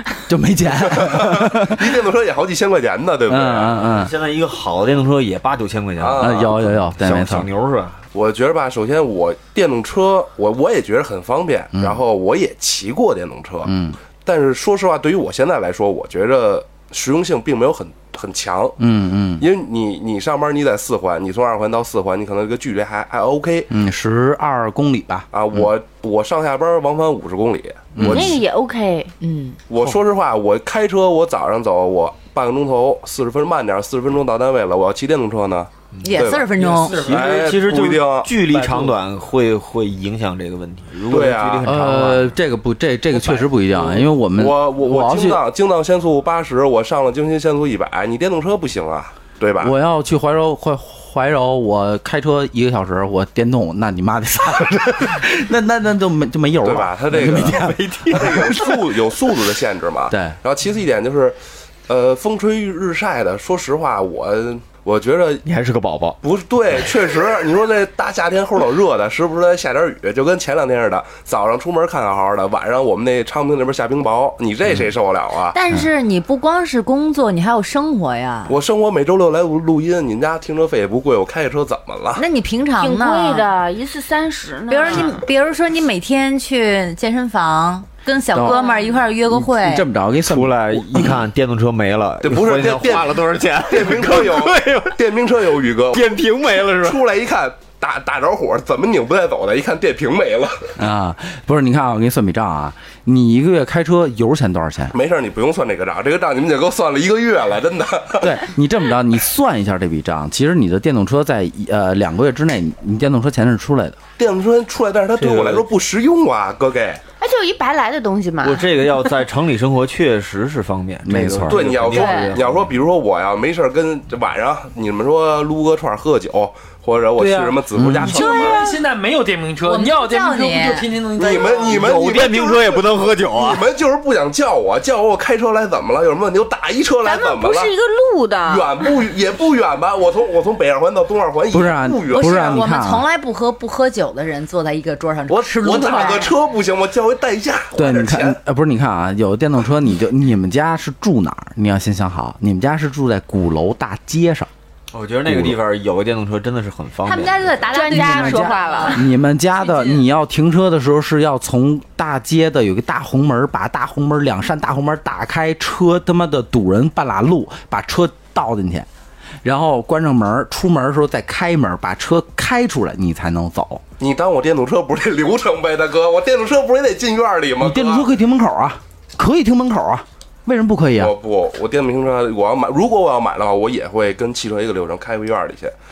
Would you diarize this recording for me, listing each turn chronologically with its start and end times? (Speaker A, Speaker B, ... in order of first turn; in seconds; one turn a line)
Speaker A: 0.3-2.0
Speaker B: 0.9-3.9
Speaker A: 3.3-4.1
Speaker C: 3.8-8.0
Speaker B: 6.0-6.5
Speaker A: 6.2-7.5
Speaker B: 8.1-13.7
Speaker A: 11.8-12.0
Speaker A: 13.7-14.0
Speaker B: 14.2-18.8
Speaker A: 18.8-19.5
Speaker B: 19.4-23.7
Speaker A: 23.7-25.7
Speaker B: 25.3-28.4
Speaker A: 27.9-28.4
Speaker D: 28.0-29.1
Speaker E: 29.2-29.6
Speaker B: 29.7-38.4
Speaker E: 36.0-37.0
Speaker F: 36.6-37.4
Speaker C: 36.9-42.3
Speaker F: 38.5-39.0
Speaker B: 41.1-41.7
Speaker A: 41.6-45.4
Speaker B: 43.3-49.7
Speaker A: 49.6-59.6
Speaker B: 56.6-65.5
Speaker C: 57.1-58.5
Speaker A: 60.1-60.4
Speaker C: 65.5-66.2
Speaker B: 66.2-75.6
Speaker E: 75.5-78.6
Speaker B: 78.5-82.2
Speaker E: 82.2-83.5
Speaker D: 82.8-85.2
Speaker E: 84.7-89.9
Speaker A: 88.3-88.6
Speaker D: 88.4-89.0
Speaker A: 89.3-91.2
Speaker C: 90.2-95.0
Speaker B: 92.2-100.7
Speaker C: 95.9-97.0
Speaker A: 100.8-105.0
Speaker B: 104.9-108.4
Speaker A: 108.2-114.0
Speaker B: 114.2-117.0
Speaker C: 115.2-115.7
Speaker D: 117.2-119.1
Speaker C: 118.4-122.7
Speaker A: 121.0-121.6
Speaker B: 121.5-128.6
Speaker D: 121.9-122.3
Speaker F: 127.2-132.0
Speaker A: 127.8-128.2
Speaker E: 128.2-128.7
Speaker E: 129.6-130.9
Speaker B: 131.2-137.7
Speaker C: 131.7-133.7
Speaker D: 137.0-139.0
Speaker B: 138.4-142.6
Speaker A: 141.5-143.0
Speaker E: 142.1-146.3
Speaker B: 145.3-148.4
Speaker A: 147.7-154.5
Speaker C: 154.9-157.7
Speaker A: 155.2-155.6
Speaker E: 157.0-160.0
Speaker D: 157.7-159.0
Speaker A: 157.9-168.9
Speaker A: 169.4-173.8
Speaker B: 174.0-178.1
Speaker A: 177.6-181.1
Speaker B: 181.0-185.8